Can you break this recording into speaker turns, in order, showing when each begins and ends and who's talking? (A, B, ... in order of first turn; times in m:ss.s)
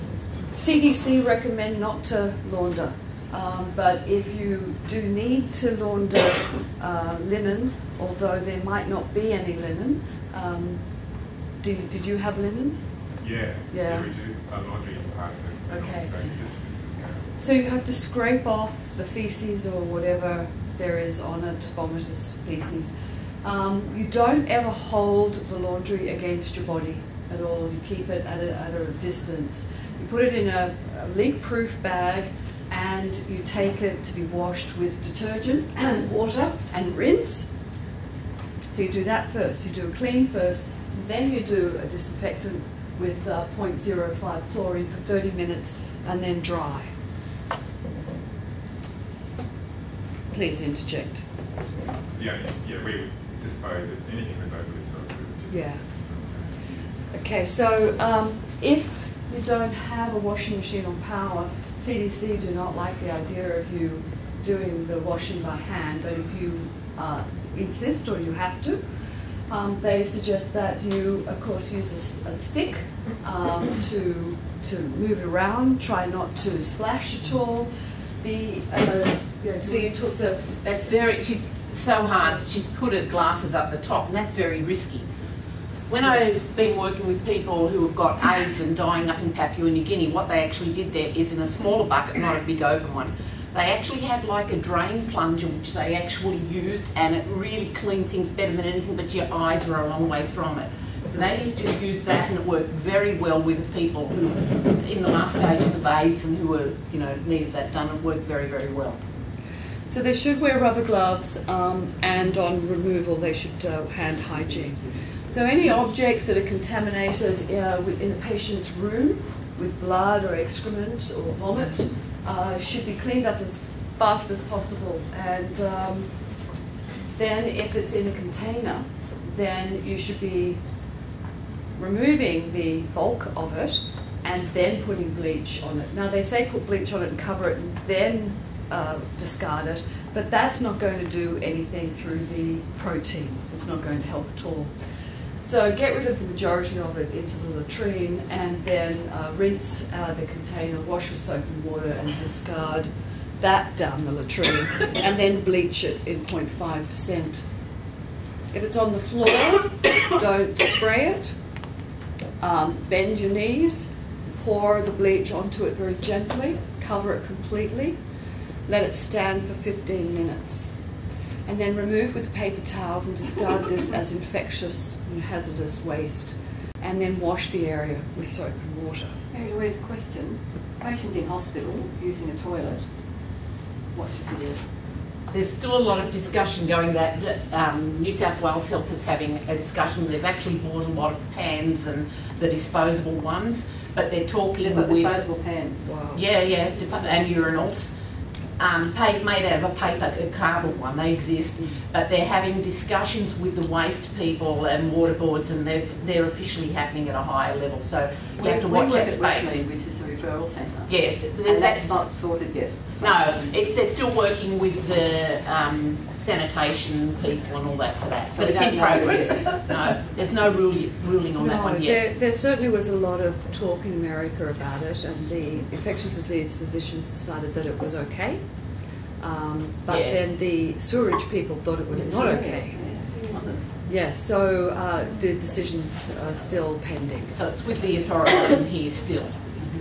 0:00.5-0:10.8 A
0:11.6-0:12.8 A
0:13.2-0:17.3 B
0:13.7-0:14.1 A
0:15.7-0:16.4 A
0:17.2-0:37.5 A
0:38.7-0:46.9 A
0:50.3-0:51.2 A
0:52.0-0:56.5 B
0:55.5-0:55.8 A
0:57.1-1:08.8 A
1:09.5-1:20.5 A
1:19.6-1:25.1 C
1:25.9-1:49.0 C
1:49.9-2:06.1 A
2:07.1-2:10.6 A
2:11.8-2:24.7 A
2:25.4-2:37.4 A
2:38.5-2:41.4 A
2:42.4-2:48.0 A
2:48.7-2:50.7 A
2:51.4-2:59.2 A
2:59.3-3:02.8 D
3:03.9-3:04.6 D
3:05.3-3:15.3 C
3:14.6-3:16.0 D
3:15.8-3:16.2 A
3:16.1-3:17.9 C
3:18.6-3:29.6 C
3:28.4-3:33.7 D
3:30.9-3:32.0 C
3:33.0-3:42.0 C
3:38.3-3:39.8 D
3:41.4-3:48.4 A
3:49.2-3:53.0 A
3:49.9-3:50.2 C
3:51.9-3:53.8 D
3:53.8-3:57.3 A
3:57.3-3:59.5 C